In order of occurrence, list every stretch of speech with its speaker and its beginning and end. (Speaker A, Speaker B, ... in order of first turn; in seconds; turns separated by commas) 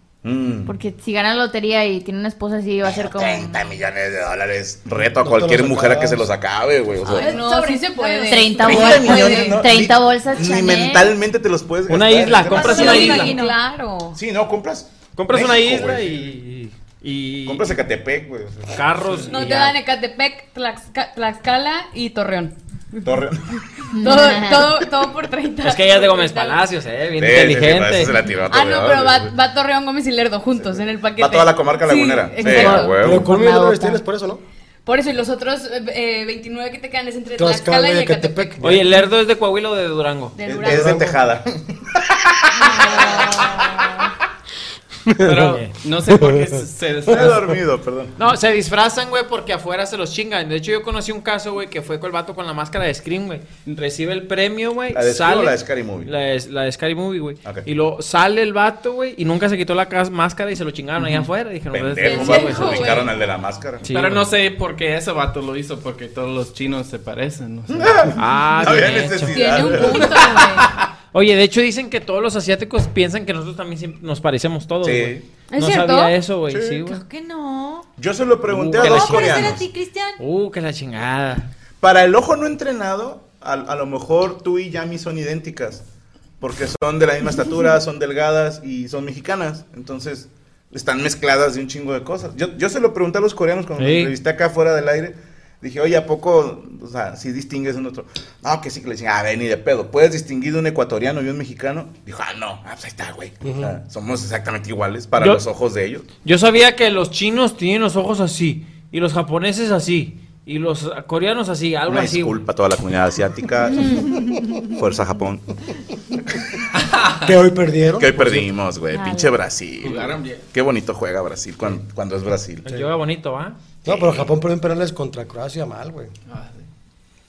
Speaker A: 0.2-0.7, Speaker B: 0.6-3.6, Speaker A: 2.8-7.3, Speaker C: 4.9-6.3, Speaker D: 7.1-8.8, Speaker E: 7.1-9.5, Speaker B: 8.3-11.1, Speaker A: 8.6-13.2, Speaker F: 11.8-13.4, Speaker E: 12.4-14.2, Speaker A: 14.2-16.2, Speaker F: 15.1-17.8, Speaker A: 17.4-18.8, Speaker F: 18.7-19.8, Speaker E: 19.3-23.2, Speaker A: 23.0-23.6, Speaker E: 23.8-26.6, Speaker B: 23.9-24.7, Speaker F: 25.6-28.2, Speaker A: 27.1-29.3, Speaker E: 28.4-33.0, Speaker A: 30.6-33.3, Speaker B: 32.4-34.0, Speaker C: 33.0-34.4, Speaker E: 34.9-38.6, Speaker C: 37.4-38.9, Speaker F: 38.6-40.4, Speaker E: 40.3-41.1, Speaker A: 40.4-44.0, Speaker C: 40.6-41.2, Speaker E: 42.6-43.6, Speaker B: 42.7-43.6, Speaker C: 45.1-46.6, Speaker G: 45.2-47.6, Speaker F: 45.4-45.7, Speaker A: 47.1-48.1, Speaker F: 48.2-63.0, Speaker A: 54.9-56.1, Speaker A: 57.4-57.7, Speaker A: 61.7-63.9, Speaker E: 62.0-63.1, Speaker F: 63.8-64.2, Speaker G: 63.9-68.2, Speaker A: 67.7-70.4, Speaker F: 68.1-69.8, Speaker E: 69.3-70.7, Speaker F: 71.1-77.0, Speaker A: 74.8-75.2, Speaker E: 75.5-76.2, Speaker A: 76.5-76.8, Speaker D: 76.9-77.9, Speaker A: 78.0-79.7, Speaker F: 78.4-79.6, Speaker D: 78.8-80.2, Speaker F: 80.2-81.5, Speaker A: 81.8-85.8, Speaker A: 86.4-106.1, Speaker F: 93.8-94.1, Speaker C: 103.4-103.8, Speaker F: 105.2-105.4, Speaker F: 106.2-112.4, Speaker A: 111.8-115.5, Speaker E: 113.7-114.2, Speaker G: 116.8-117.2, Speaker C: 117.2-118.5, Speaker A: 118.0-122.7, Speaker G: 119.8-120.5, Speaker F: 122.6-123.6, Speaker C: 123.8-126.1, Speaker A: 123.8-124.3, Speaker G: 126.3-126.6